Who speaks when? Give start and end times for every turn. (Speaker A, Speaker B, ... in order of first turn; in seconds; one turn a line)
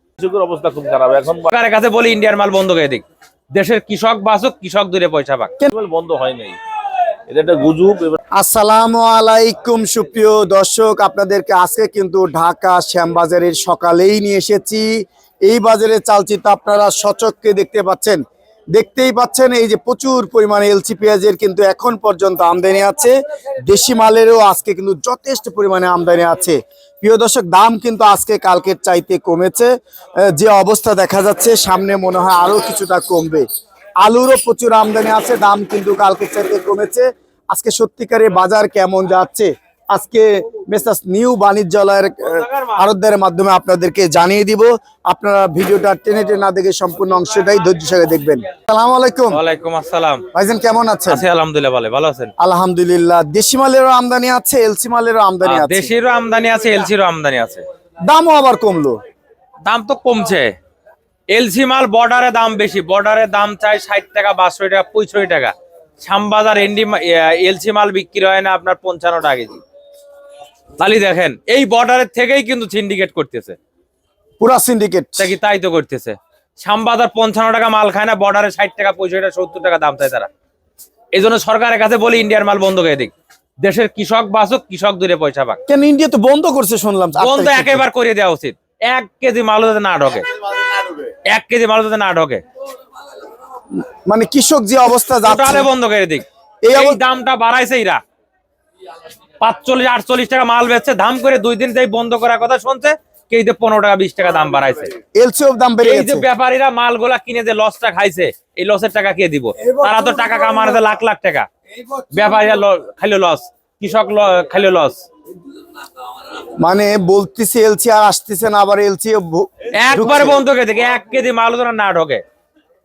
Speaker A: 0.2-1.5
Speaker B: 1.5-5.5
Speaker A: 5.7-6.6
Speaker A: 7.3-8.2
Speaker C: 8.3-18.2
Speaker C: 18.7-33.5
Speaker C: 34.0-49.4
Speaker B: 42.5-42.8
Speaker B: 49.3-50.3
Speaker C: 50.3-51.2
Speaker B: 51.1-52.3
Speaker C: 52.4-55.9
Speaker B: 55.4-57.6
Speaker C: 58.0-59.0
Speaker B: 59.6-60.5
Speaker B: 61.3-69.6
Speaker B: 70.8-73.6
Speaker C: 74.4-75.3
Speaker B: 75.2-80.3
Speaker B: 81.1-85.6
Speaker C: 85.7-87.8
Speaker B: 87.2-90.3
Speaker B: 91.3-92.4
Speaker C: 93.9-95.7
Speaker B: 95.2-98.0
Speaker C: 96.6-97.0
Speaker B: 99.4-104.9
Speaker C: 105.1-106.3
Speaker B: 105.8-115.0
Speaker C: 109.7-110.8
Speaker C: 116.6-120.4
Speaker B: 119.7-122.2